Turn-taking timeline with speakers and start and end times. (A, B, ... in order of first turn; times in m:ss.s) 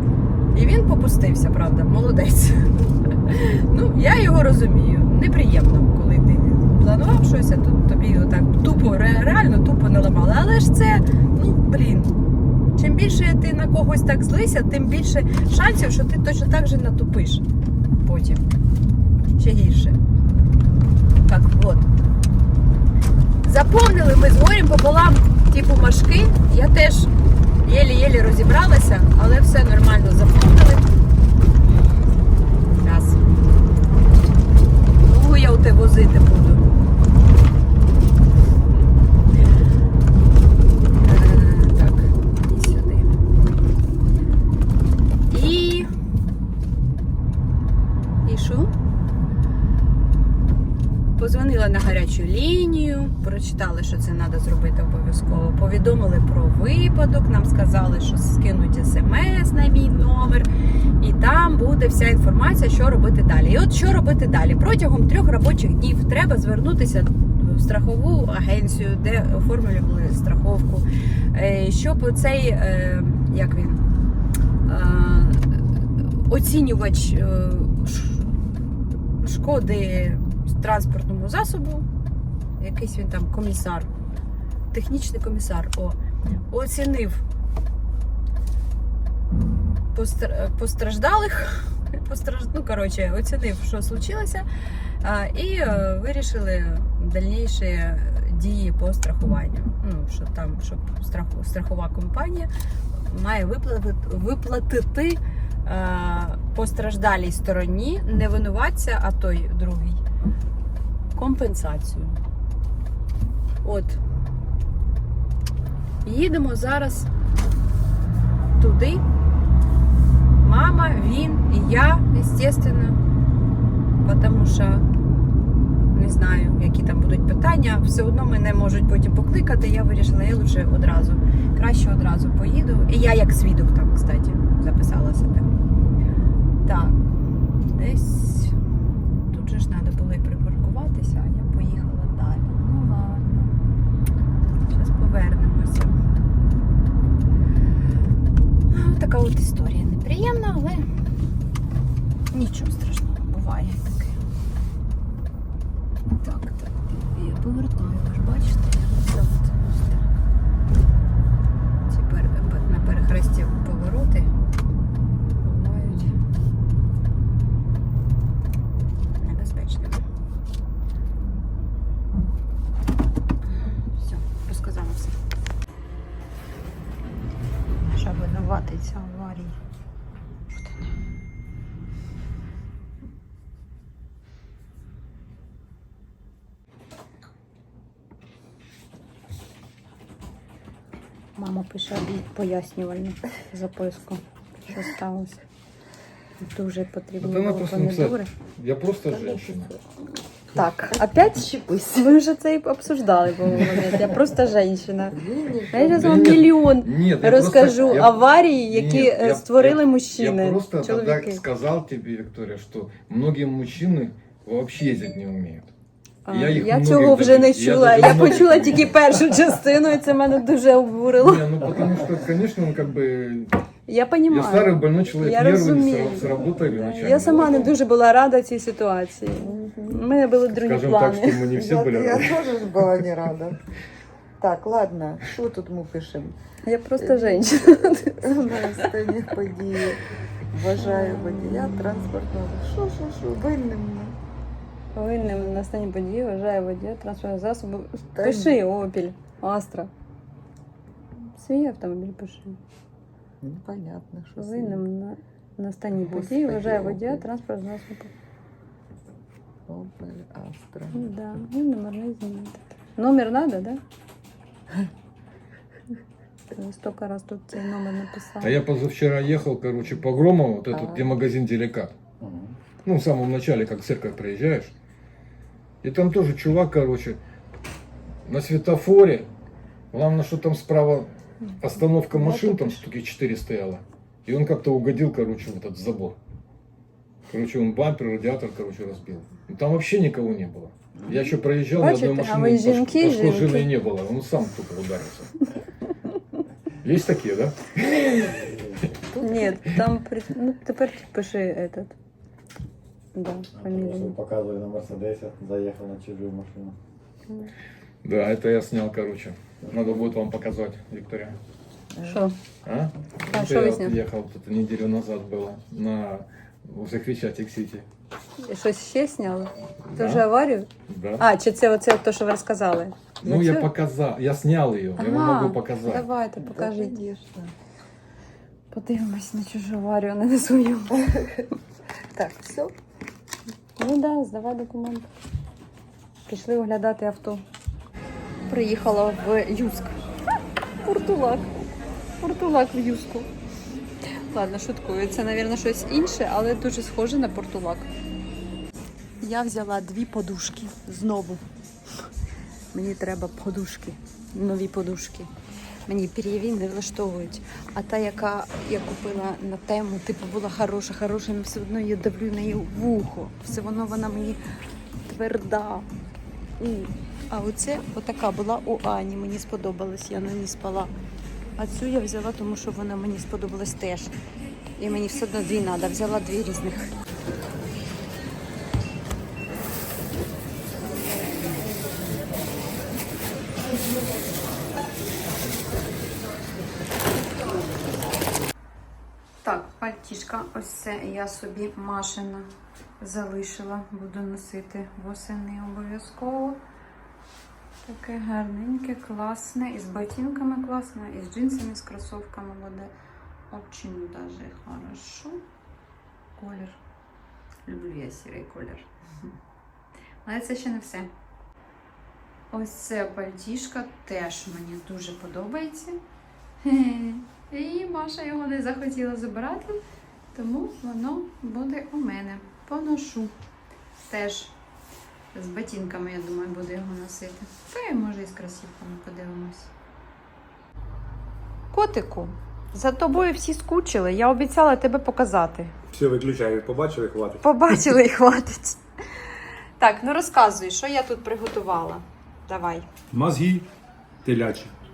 0:00.5-0:12.2 A
0:12.8-0:17.4 A
0:18.0-0:18.5 A
0:19.4-0:20.0 A
0:21.2-0:21.9 A
0:23.4-0:27.1 A
0:27.6-0:30.9 A
0:32.7-0:33.2 A
0:35.0-0:36.7 A
0:41.0-0:43.2 A
0:45.3-0:45.9 A
0:48.2-0:48.7 A
0:51.2-1:00.5 A
1:01.0-1:13.8 A
1:14.6-1:18.3 A
1:19.2-1:21.9 A
1:22.6-1:23.9 A
1:24.7-1:26.0 A
1:26.5-1:27.2 A
1:29.9-1:34.4 A
1:35.0-1:50.0 A
1:51.2-1:52.2 A
1:53.6-1:54.0 A
1:56.0-1:57.1 A
1:58.6-1:59.0 A
2:00.4-2:03.0 A
2:04.0-2:04.8 A
2:05.9-2:15.5 A
2:16.6-2:23.5 A
2:24.7-2:26.0 A
2:28.7-2:30.9 A
2:32.3-2:34.2 A
2:36.2-2:40.1 A
2:41.9-2:44.3 A
2:45.4-2:46.2 A
2:49.2-2:50.0 A
2:53.5-2:55.1 A
2:57.9-2:59.6 A
3:00.6-3:00.9 A
3:11.4-3:15.4 A
3:16.4-3:18.3 A
3:17.2-3:19.7 B
3:19.1-3:19.7 C
3:20.5-3:25.2 A
3:25.1-3:26.3 C
3:25.7-3:31.4 A
3:25.7-3:35.7 B
3:36.3-3:41.5 A
3:36.3-3:39.0 B
3:41.2-3:43.6 B
3:43.9-3:51.5 A
3:44.3-3:47.8 B
3:49.4-3:50.0 C
3:50.5-3:52.7 B
3:51.5-3:53.6 C
3:54.4-3:56.4 C
3:56.6-3:58.5 A
3:57.0-4:00.0 C
4:00.5-4:04.2 C
4:00.8-4:01.7 A
4:04.9-4:09.9 A
4:08.2-4:08.6 C
4:11.3-4:12.6 A
4:13.4-4:14.8 C
4:14.4-4:18.1 A
4:16.0-4:17.2 C
4:19.7-4:21.0 C
4:20.9-4:23.8 A
4:26.6-4:28.6 A
4:28.4-4:32.0 B
4:30.7-4:31.1 C
4:32.2-4:32.5 D
4:32.8-4:34.7 B
4:35.8-4:37.2 B
4:38.2-4:39.3 B
4:39.9-4:46.2 B
4:42.1-4:42.8 A
4:47.3-4:55.4 B
4:51.8-4:53.7 A
4:56.8-4:58.7 B
4:59.1-5:01.9 A
5:03.2-5:04.2 A
5:03.6-5:06.8 D
5:08.0-5:11.4 B
5:12.0-5:12.4 A
5:12.6-5:17.8 B
5:13.3-5:14.0 A
5:18.4-5:23.7 A
5:19.9-5:20.3 B
5:20.9-5:21.3 B
5:23.2-5:26.1 B
5:25.0-5:27.1 A
5:26.4-5:27.5 C
5:28.7-5:31.1 A
5:31.0-5:31.4 C
5:32.1-5:32.7 C
5:33.8-5:35.1 A
5:36.3-5:37.4 A
5:38.5-5:39.9 A
5:40.8-5:41.6 A
5:42.2-5:43.3 A
5:44.2-5:47.9 A
5:49.2-5:51.4 A
5:52.7-5:55.3 A
5:55.9-6:04.4 A
6:05.0-6:05.9 A
6:06.6-6:10.9 A
6:11.6-6:14.1 A
6:14.8-6:16.9 A
6:29.4-6:36.6 A
6:37.8-6:42.9 A
6:43.5-6:45.4 A
6:46.4-6:46.8 A
6:47.7-6:48.9 A
6:50.2-6:51.1 A
6:52.5-6:56.0 A
6:56.6-6:59.8 A
7:00.3-7:03.3 A
7:04.0-7:04.5 A
7:05.3-7:09.7 A
7:11.7-7:15.7 A
7:15.9-7:17.8 E
7:17.4-7:18.8 A
7:19.8-7:22.9 A
7:23.1-7:23.7 E
7:24.2-7:24.7 E